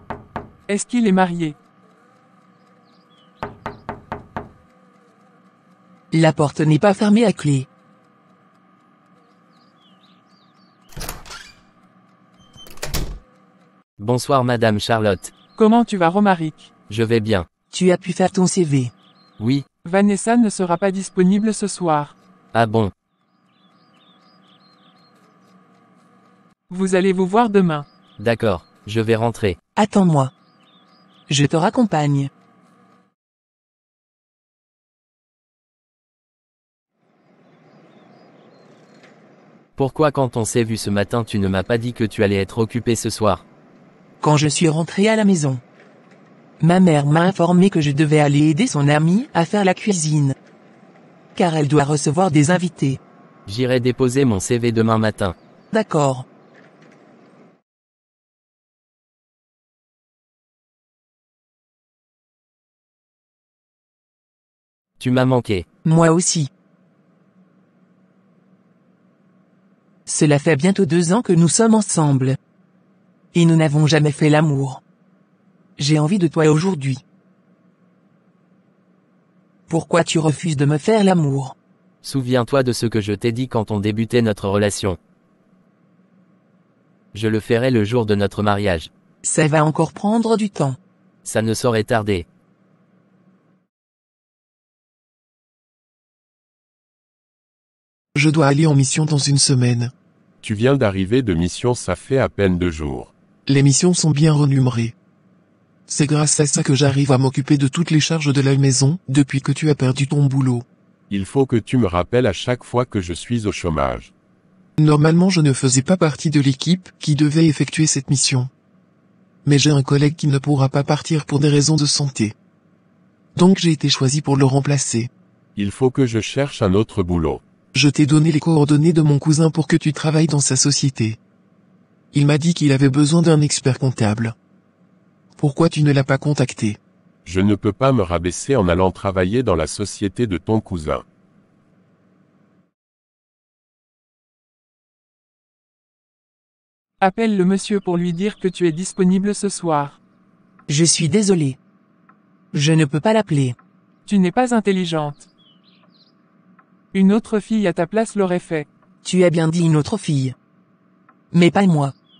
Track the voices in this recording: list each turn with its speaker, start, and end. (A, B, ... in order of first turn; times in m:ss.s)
0:00.7-0:01.6 A
0:06.1-0:07.7 B
0:14.0-0:15.3 C
0:15.6-0:16.7 A
0:16.9-0:17.5 C
0:17.7-0:18.9 B
0:19.4-0:19.7 C
0:19.8-0:22.2 A
0:22.5-0:22.9 C
0:26.7-0:27.9 A
0:28.2-0:29.6 C
0:29.8-0:30.3 B
0:31.3-0:32.3 B
0:39.8-0:43.4 C
0:44.2-0:45.6 B
0:46.6-0:50.4 B
0:51.4-0:53.0 B
0:53.5-0:55.4 C
0:55.7-0:56.3 B
1:05.0-1:05.6 C
1:05.8-1:06.5 B
1:10.1-1:12.4 B
1:13.3-1:14.8 B
1:15.8-1:17.0 B
1:19.7-1:21.6 B
1:22.0-1:25.0 C
1:27.1-1:28.9 C
1:29.2-1:30.8 B
1:31.2-1:32.3 C
1:38.2-1:39.9 D
1:40.4-1:43.1 E
1:43.5-1:45.0 D
1:45.9-1:50.6 D
1:51.1-1:54.1 E
1:54.8-1:58.5 D
1:59.4-2:02.4 D
2:03.4-2:05.1 D
2:05.6-2:07.4 E
2:07.7-2:11.2 D
2:12.1-2:14.4 D
2:15.4-2:16.8 D
2:17.2-2:21.0 E
2:27.0-2:30.0 A
2:30.7-2:31.6 B
2:32.5-2:33.6 B
2:34.1-2:35.3 A
2:36.9-2:38.7 A
2:39.0-2:40.4 B
2:41.3-2:41.9 B